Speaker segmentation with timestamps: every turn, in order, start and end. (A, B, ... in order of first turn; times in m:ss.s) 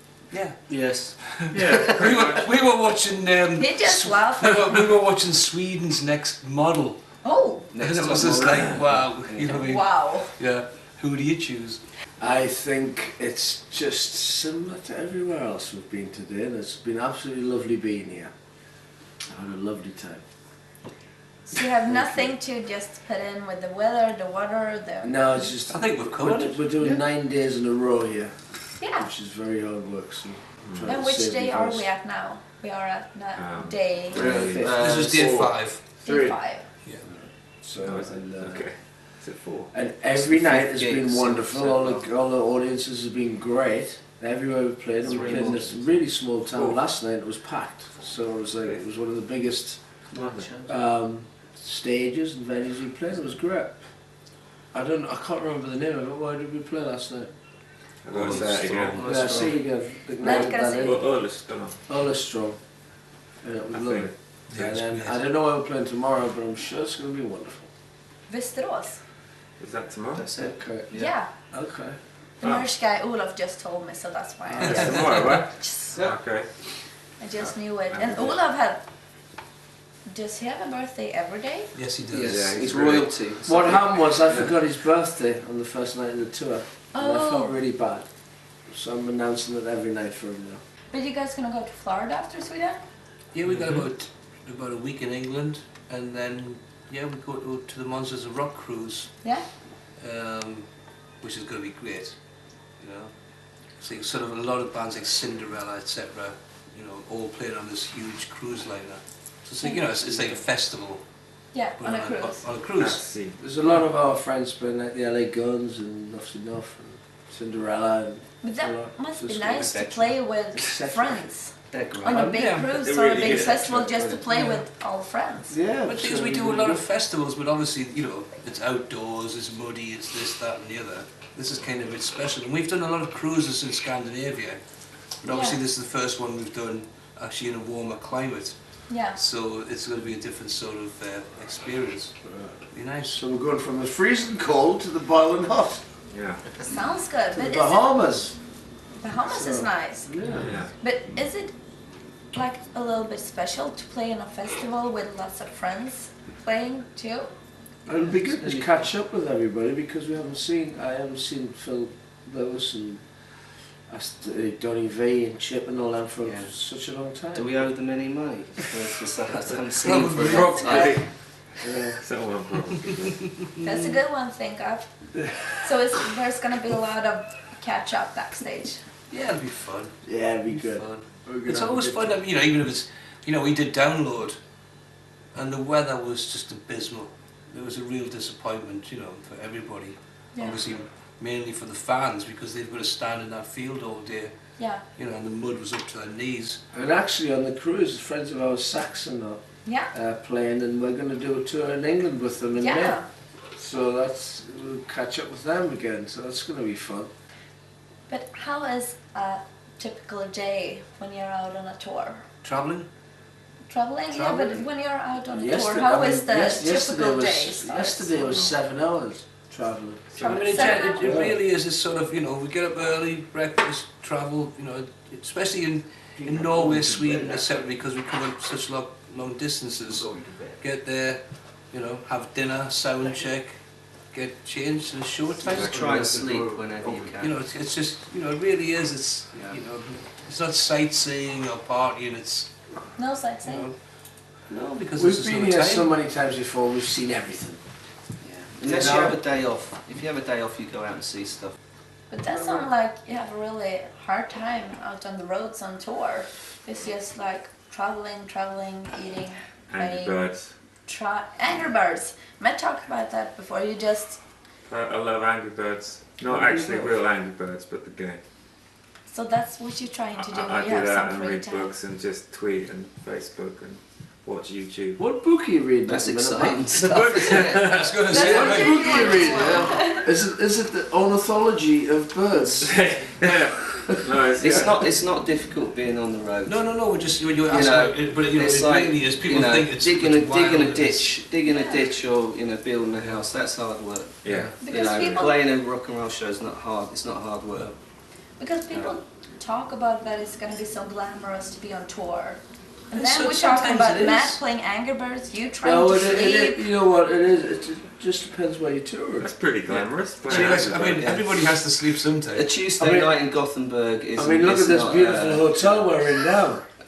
0:00.3-0:00.6 A
0:00.7-0:01.2 B
0:01.4-0:02.4 C
0:01.7-0:07.0 A
0:03.6-0:04.8 D
0:07.2-0:07.7 D
0:07.7-0:09.7 B
0:07.8-0:11.8 A
0:09.5-0:10.3 D
0:12.2-0:18.3 E
0:19.3-0:20.2 E
0:21.5-0:25.5 D
0:21.9-0:22.3 E
0:25.0-0:31.9 E
0:25.7-0:26.7 A
0:28.8-0:29.1 D
0:30.7-0:30.9 C
0:30.8-0:34.2 D
0:33.4-0:35.6 C
0:34.1-0:35.4 B
0:34.3-0:34.8 E
0:34.8-0:35.8 A
0:36.0-0:36.7 D
0:37.6-0:38.7 E
0:37.8-0:39.7 C
0:39.7-0:49.8 E
0:40.1-0:42.1 B
0:45.0-0:45.9 B
0:50.1-0:50.7 B
0:50.7-0:53.8 E
0:54.7-0:57.3 E
0:58.0-0:59.2 C
0:58.1-1:01.0 E
0:58.2-0:59.6 B
1:00.2-1:01.0 D
1:00.2-1:01.8 C
1:01.9-1:02.6 E
1:03.4-1:07.7 E
1:03.7-1:04.1 C
1:04.5-1:05.2 A
1:08.3-1:09.0 D
1:09.6-1:10.2 C
1:10.1-1:11.1 B
1:10.5-1:10.9 E
1:10.9-1:11.3 D
1:11.5-1:12.0 E
1:12.4-1:15.9 D
1:14.6-1:16.5 C
1:15.9-1:16.2 B
1:17.2-1:18.8 D
1:17.4-1:18.4 C
1:20.1-1:21.7 D
1:21.8-1:22.4 A
1:22.1-1:24.3 B
1:22.3-1:23.1 C
1:23.4-1:28.1 E
1:26.9-1:27.5 D
1:28.7-1:30.6 E
1:30.9-1:32.8 D
1:33.3-1:39.1 A
1:40.0-1:40.7 A
1:41.2-1:42.1 A
1:42.8-1:43.1 A
1:43.8-1:51.0 A
1:50.0-1:50.4 E
1:51.5-1:52.4 D
1:51.8-1:53.0 A
1:52.8-1:53.4 C
1:53.4-1:59.6 E
1:58.4-2:05.6 D
1:59.4-2:00.2 B
2:00.6-2:01.3 E
2:01.7-2:02.2 B
2:02.1-2:03.4 A
2:02.8-2:04.2 C
2:04.3-2:04.6 A
2:05.5-2:05.9 B
2:05.7-2:06.8 E
2:05.9-2:14.6 A
2:15.2-2:18.6 A
2:15.2-2:15.6 D
2:18.9-2:19.2 D
2:19.1-2:22.1 A
2:22.2-2:22.6 E
2:22.7-2:23.2 A
2:23.1-2:25.8 E
2:26.1-2:26.4 C
2:26.6-2:27.8 D
2:27.3-2:28.4 E
2:29.0-2:30.1 D
2:29.2-2:30.5 E
2:30.4-2:30.7 C
2:30.8-2:31.5 D
2:32.3-2:37.3 D
2:37.9-2:43.0 E
2:37.9-2:38.9 B
2:43.9-2:47.5 E
2:46.2-2:46.5 B
2:47.3-2:51.0 B
2:49.8-2:50.9 A
2:50.2-2:51.1 C
2:50.5-2:51.0 D
2:51.6-2:52.0 E
2:51.8-2:53.3 C
2:53.6-2:54.9 D
2:55.2-2:55.4 E
2:55.6-2:58.8 D
2:59.1-3:00.0 A
3:00.0-3:02.2 E
3:00.5-3:04.4 A
3:05.3-3:14.3 A
3:10.4-3:10.6 D
3:14.6-3:14.8 D
3:15.0-3:16.6 A
3:16.7-3:19.4 E
3:19.6-3:19.9 D
3:19.9-3:23.0 E
3:22.6-3:23.1 D
3:23.6-3:27.1 E
3:28.1-3:32.2 D
3:32.4-3:32.9 A
3:33.7-3:38.1 D
3:34.1-3:34.7 A
3:35.3-3:40.1 E
3:38.2-3:38.5 C
3:40.1-3:41.2 D
3:40.2-3:40.8 C
3:40.2-3:50.1 A
3:40.8-3:41.4 E
3:46.2-3:47.5 B
3:50.0-3:50.5 B
3:50.6-3:53.6 A
3:54.1-4:02.5 A
3:55.4-3:57.4 B
3:59.3-3:59.6 B
4:03.0-4:03.7 D
4:03.4-4:03.7 A
4:04.5-4:05.9 A
4:05.0-4:07.6 E
4:08.2-4:11.6 B
4:08.6-4:09.2 E
4:12.1-4:20.2 D
4:12.3-4:12.7 E
4:19.7-4:20.5 C
4:20.9-4:24.2 D
4:24.6-4:28.2 C
4:26.3-4:27.0 E
4:29.1-4:31.7 D
4:30.2-4:35.0 C
4:35.0-4:36.7 E
4:35.9-4:37.8 B
4:36.8-4:39.6 A
4:36.8-4:38.0 C
4:38.1-4:40.1 D
4:38.1-4:43.0 E
4:42.6-4:44.9 C
4:44.3-4:46.6 B
4:46.4-4:51.1 A
4:47.5-4:57.8 B
4:51.5-4:51.8 D
4:54.2-4:54.7 C
4:54.6-4:55.4 D
4:58.4-5:06.7 D
4:58.7-4:59.0 B
5:02.9-5:04.4 A
5:05.6-5:09.3 E
5:09.2-5:11.2 C
5:09.7-5:10.6 B
5:10.2-5:12.5 A
5:12.3-5:15.9 B
5:12.8-5:13.1 E
5:14.2-5:16.6 E